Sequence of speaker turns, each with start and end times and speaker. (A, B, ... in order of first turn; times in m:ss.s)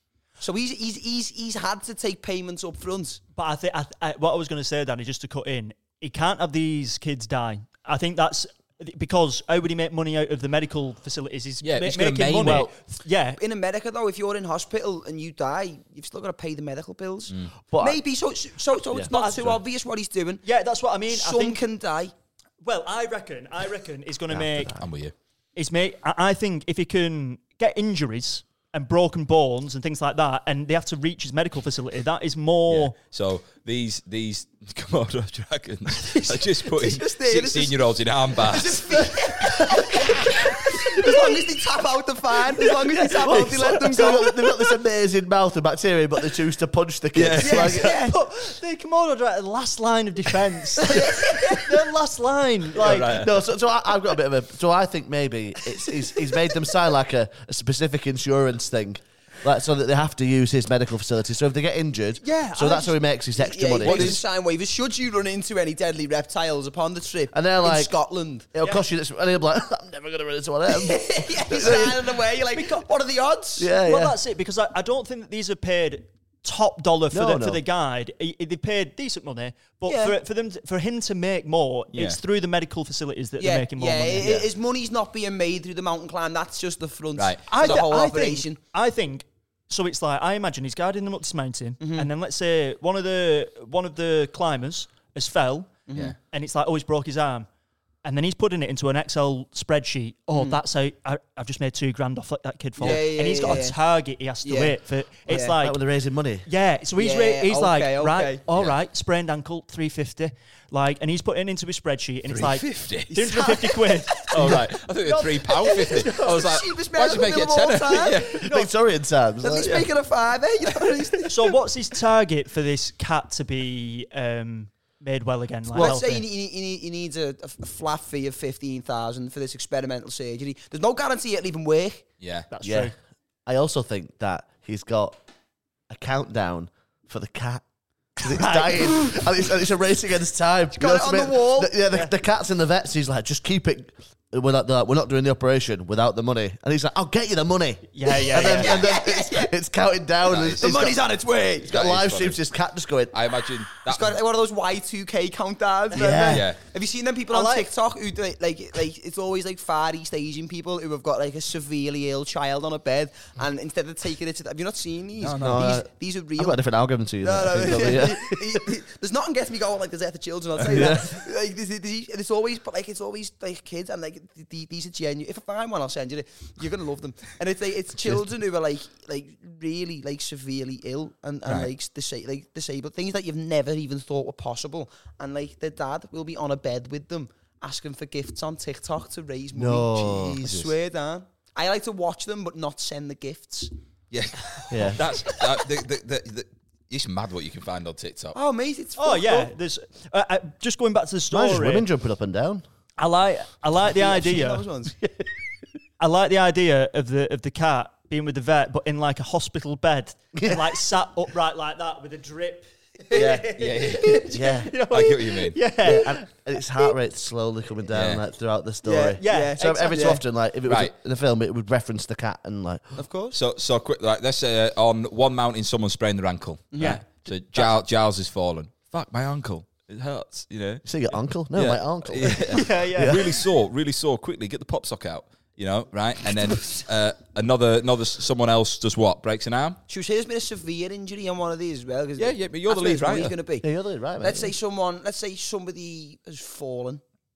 0:00.4-0:03.2 A
0:03.4-0:13.4 B
0:11.6-0:12.7 C
0:13.4-0:20.4 A
0:17.7-0:18.0 D
0:18.9-0:19.5 D
0:19.1-0:19.5 B
0:20.4-0:21.6 B
0:21.1-0:22.1 A
0:22.6-0:24.8 B
0:24.3-0:24.8 D
0:24.8-0:25.1 C
0:25.6-0:32.9 B
0:32.7-0:39.1 C
0:36.1-0:44.4 A
0:39.7-0:40.1 B
0:41.0-0:41.3 B
0:43.1-0:48.0 D
0:43.2-0:44.3 B
0:47.1-0:47.7 C
0:47.4-0:48.1 A
0:47.6-0:53.3 B
0:50.9-0:51.6 A
0:52.8-0:53.3 C
0:52.8-1:04.2 D
1:02.2-1:02.9 B
1:03.4-1:08.5 A
1:03.8-1:04.2 C
1:07.3-1:07.9 D
1:08.5-1:12.2 D
1:10.7-1:13.7 A
1:12.5-1:12.8 B
1:13.6-1:14.2 D
1:13.8-1:24.5 B
1:17.1-1:17.6 D
1:19.8-1:20.2 A
1:21.9-1:22.2 C
1:23.4-1:28.6 A
1:27.2-1:27.8 C
1:27.5-1:37.5 B
1:31.8-1:32.1 A
1:35.9-1:36.1 A
1:38.0-1:45.8 B
1:40.3-1:40.6 A
1:42.8-1:43.8 A
1:44.4-1:44.8 A
1:45.3-1:45.5 A
1:45.6-1:46.5 D
1:46.4-1:54.6 B
1:47.0-1:48.4 A
1:52.3-1:53.1 C
1:53.1-1:58.5 A
1:54.3-1:58.5 C
1:58.3-1:59.9 D
1:59.4-2:01.5 A
2:01.2-2:06.2 B
2:05.7-2:06.0 D
2:05.7-2:12.0 A
2:12.2-2:12.5 C
2:12.5-2:12.9 B
2:12.6-2:12.9 D
2:13.4-2:15.2 D
2:15.9-2:17.6 D
2:18.2-2:31.0 D
2:18.2-2:19.2 B
2:20.7-2:21.7 A
2:27.9-2:28.9 B
2:28.1-2:29.5 A
2:30.3-2:30.8 C
2:30.5-2:31.7 A
2:31.6-2:33.1 D
2:31.7-2:32.4 C
2:33.1-2:34.2 C
2:33.9-2:46.6 A
2:35.9-2:36.4 D
2:36.2-2:36.6 C
2:37.3-2:37.7 B
2:45.2-2:45.7 C
2:45.4-2:48.7 D
2:47.2-3:13.7 A
2:50.6-2:51.2 D
3:01.4-3:01.7 C
3:09.5-3:10.7 D
3:14.1-3:18.4 C
3:14.7-3:15.0 D
3:18.3-3:19.5 A
3:19.0-3:21.8 B
3:21.3-3:22.6 D
3:23.0-3:24.7 B
3:23.9-3:24.9 A
3:26.0-3:36.9 B
3:30.3-3:30.8 D
3:33.1-3:33.6 D
3:33.5-3:34.3 C
3:34.1-3:34.7 D
3:34.9-3:35.6 C
3:35.8-3:43.0 D
3:37.9-3:38.2 C
3:38.8-3:40.2 A
3:39.2-3:40.2 B
3:40.6-3:40.9 C
3:43.0-3:43.4 A
3:43.3-3:50.8 C
3:46.7-3:47.0 A
3:46.8-3:47.0 B
3:50.8-3:53.2 D
3:51.5-3:59.8 C
3:52.5-3:53.2 B
3:59.9-4:03.7 A
4:02.2-4:03.4 C
4:03.6-4:04.5 D
4:04.2-4:07.0 A